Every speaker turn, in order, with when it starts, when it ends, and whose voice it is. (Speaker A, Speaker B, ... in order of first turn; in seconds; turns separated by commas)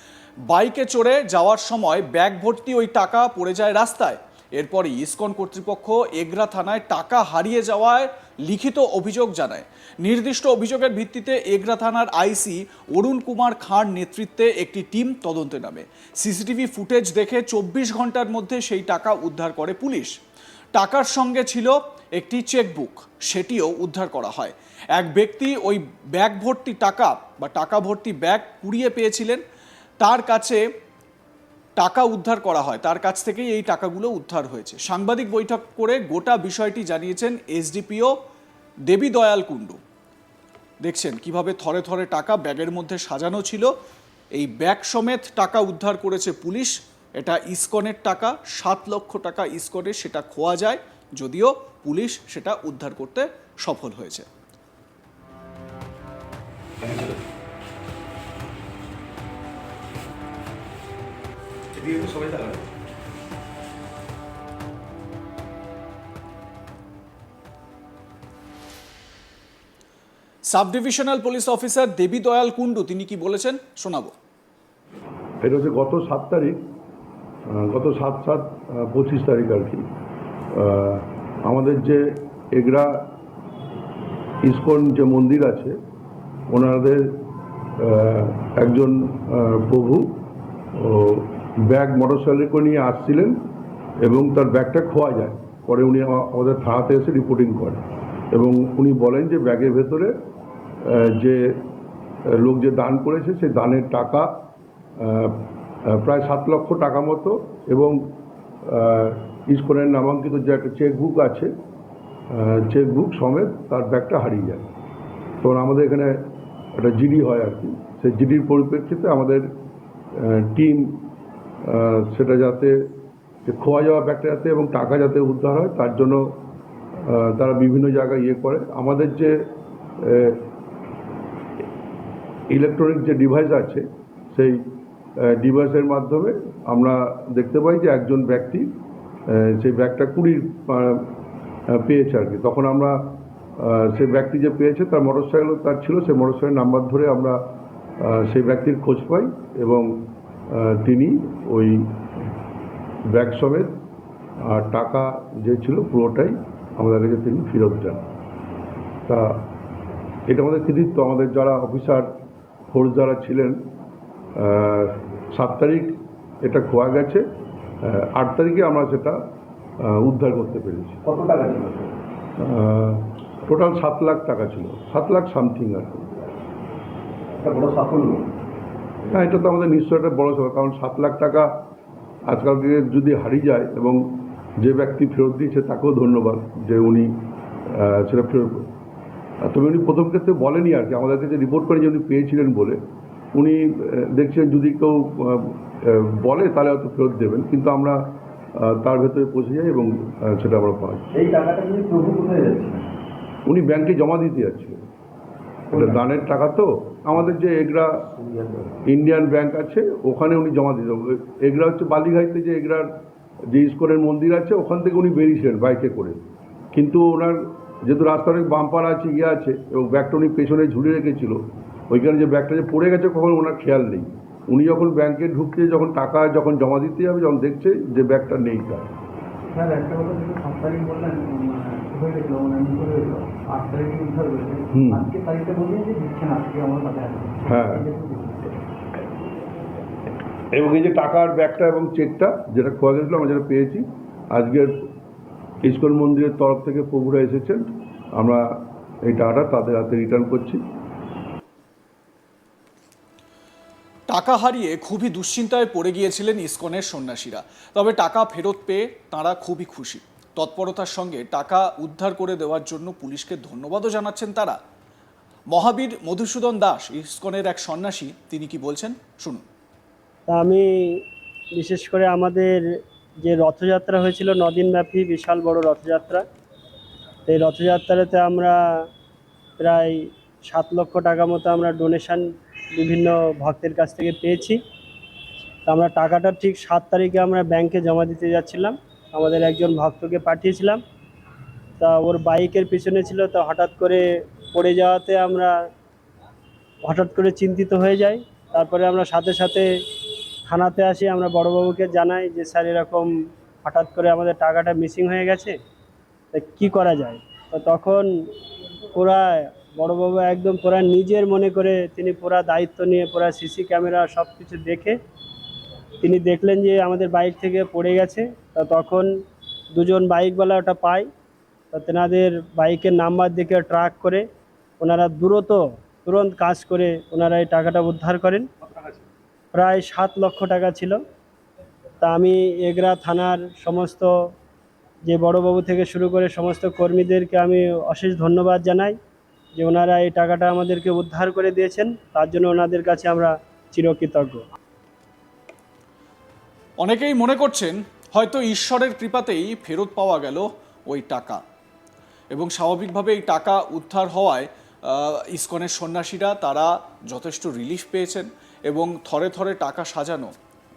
Speaker A: 0.5-20.1, Speaker A: 20.8-29.4, Speaker A: 30.0-30.6, Speaker A: 31.8-38.1, Speaker A: 38.9-39.8, Speaker A: 40.8-43.7, Speaker A: 44.3-54.3, Speaker B: 56.9-57.2, Speaker B: 61.8-62.6, Speaker A: 70.5-74.1, Speaker C: 75.4-76.6, Speaker C: 77.5-79.8, Speaker C: 80.5-82.0, Speaker C: 82.5-83.0, Speaker C: 84.4-85.8, Speaker C: 86.5-87.1, Speaker C: 87.8-90.1, Speaker C: 90.8-93.3, Speaker C: 94.0-100.1, Speaker C: 100.8-101.6, Speaker C: 102.3-104.3, Speaker C: 105.0-108.0, Speaker C: 108.7-111.5, Speaker C: 112.3-114.6, Speaker C: 115.4-116.2, Speaker C: 116.8-119.5, Speaker C: 120.2-121.0, Speaker C: 121.7-122.8, Speaker C: 123.5-126.2, Speaker C: 127.0-129.3, Speaker C: 130.0-130.4, Speaker C: 132.5-134.6, Speaker C: 135.2-138.7, Speaker C: 139.3-141.1, Speaker C: 141.7-147.4, Speaker C: 148.0-149.9, Speaker C: 150.5-151.9, Speaker C: 153.1-153.7, Speaker C: 154.4-158.0, Speaker C: 159.1-159.4, Speaker C: 160.3-162.1, Speaker C: 162.7-163.6, Speaker C: 164.3-167.2, Speaker C: 167.8-169.2, Speaker C: 169.8-171.0, Speaker B: 171.1-172.0, Speaker C: 172.4-176.1, Speaker B: 177.4-178.2, Speaker C: 179.1-181.5, Speaker C: 182.3-184.0, Speaker C: 184.6-187.1, Speaker C: 187.7-188.6, Speaker C: 189.4-192.8, Speaker C: 193.3-198.0, Speaker C: 198.6-201.0, Speaker B: 201.2-202.9, Speaker C: 203.5-204.8, Speaker C: 205.7-208.0, Speaker B: 208.2-208.8, Speaker C: 208.9-212.9, Speaker C: 213.5-216.2, Speaker C: 216.7-228.8, Speaker D: 229.5-238.6, Speaker C: 234.7-235.1, Speaker C: 237.5-237.9, Speaker C: 240.5-244.7, Speaker C: 245.6-248.5, Speaker C: 249.0-250.6, Speaker A: 254.1-264.6, Speaker A: 265.5-269.4, Speaker E: 270.3-270.6, Speaker E: 271.6-272.6, Speaker E: 273.2-276.2, Speaker E: 277.3-278.6, Speaker E: 279.6-282.2, Speaker E: 282.8-284.6, Speaker E: 285.7-290.8, Speaker E: 291.8-295.5, Speaker E: 296.9-299.6, Speaker E: 300.5-303.1, Speaker E: 303.6-305.6, Speaker E: 306.3-308.1, Speaker E: 308.9-315.0, Speaker E: 316.0-319.1, Speaker E: 319.8-321.1, Speaker E: 321.7-324.2, Speaker E: 324.8-328.5, Speaker E: 329.5-331.0, Speaker E: 332.0-334.1, Speaker E: 335.1-339.0, Speaker E: 339.6-344.4, Speaker A: 346.8-351.4, Speaker A: 352.3-360.3